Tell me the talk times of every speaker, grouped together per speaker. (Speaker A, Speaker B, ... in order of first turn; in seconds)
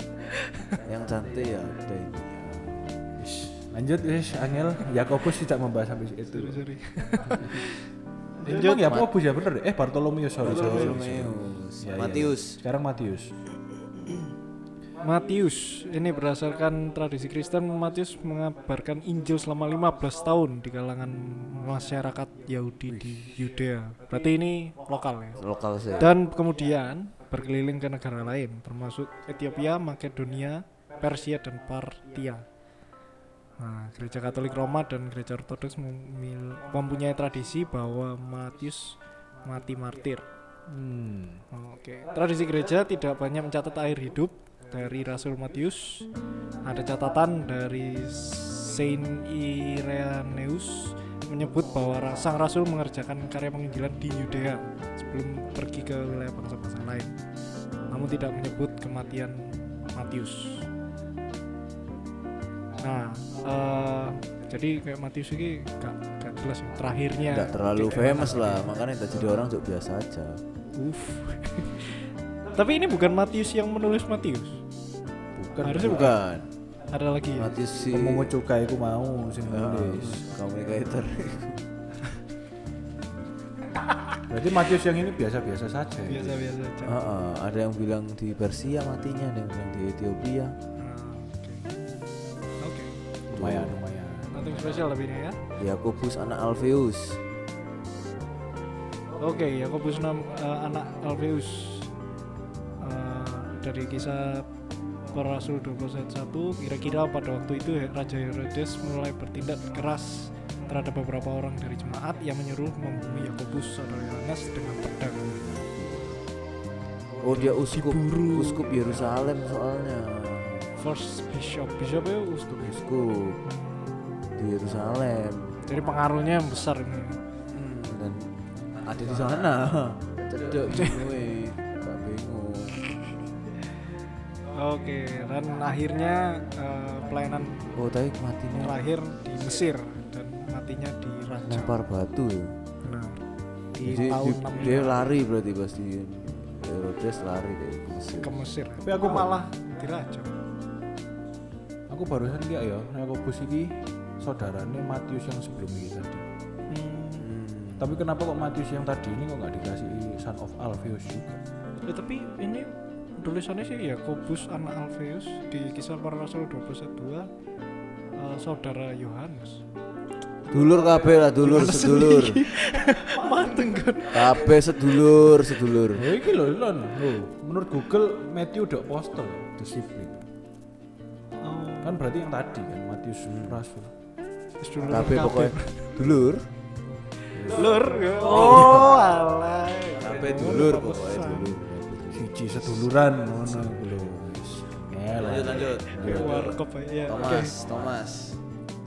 Speaker A: 0.3-0.8, 6.3-7.9, 8.4-9.0, 15.0-25.4, 26.0-32.5, 33.6-40.3, 41.5-46.1, 46.6-57.1, 57.9-60.7, 62.8-68.8, 70.7-74.6, 75.6-76.2, 76.9-77.5, 86.0-87.0, 90.8-91.8, 92.6-93.0, 94.3-95.4, 99.2-101.9, 102.8-104.5, 105.1-115.4, 117.3-119.4, 120.8-122.8, 123.5-124.1, 125.7-127.2, 130.7-131.0, 134.5-137.7, 138.5-141.7, 142.8-143.2, 143.7-145.0, 148.2-150.3, 156.7-157.3, 161.8-167.3, 168.1-169.6, 171.4-174.5, 181.4-182.0, 184.6-186.1, 187.4-191.6, 195.9-197.5
Speaker B: 0.8-2.9, 8.8-9.1, 10.4-12.6, 25.4-26.1, 67.3-70.4, 75.7-76.5, 77.3-78.3, 79.4-81.6, 86.8-90.6, 93.3-93.8, 95.6-97.2, 115.2-116.2, 117.2-120.7, 122.6-123.4, 124.3-125.6, 127.5-132.8, 137.7-138.8, 141.4-142.6, 143.8-148.4, 157.2-158.0, 170.5-172.5, 174.1-176.0, 183.3-183.6, 184.9-186.5, 188.3-188.8, 190.0-192.3, 195.1-198.4
Speaker C: 3.2-6.6, 8.4-13.3, 22.9-23.3, 40.7-41.4, 75.3-76.2, 77.9-80.2, 84.3-86.5, 93.3-94.7, 148.8-149.3, 151.9-156.2, 157.8-161.4, 175.9-180.2, 181.8-183.9, 187.3-187.7, 188.5-188.8, 192.1-196.4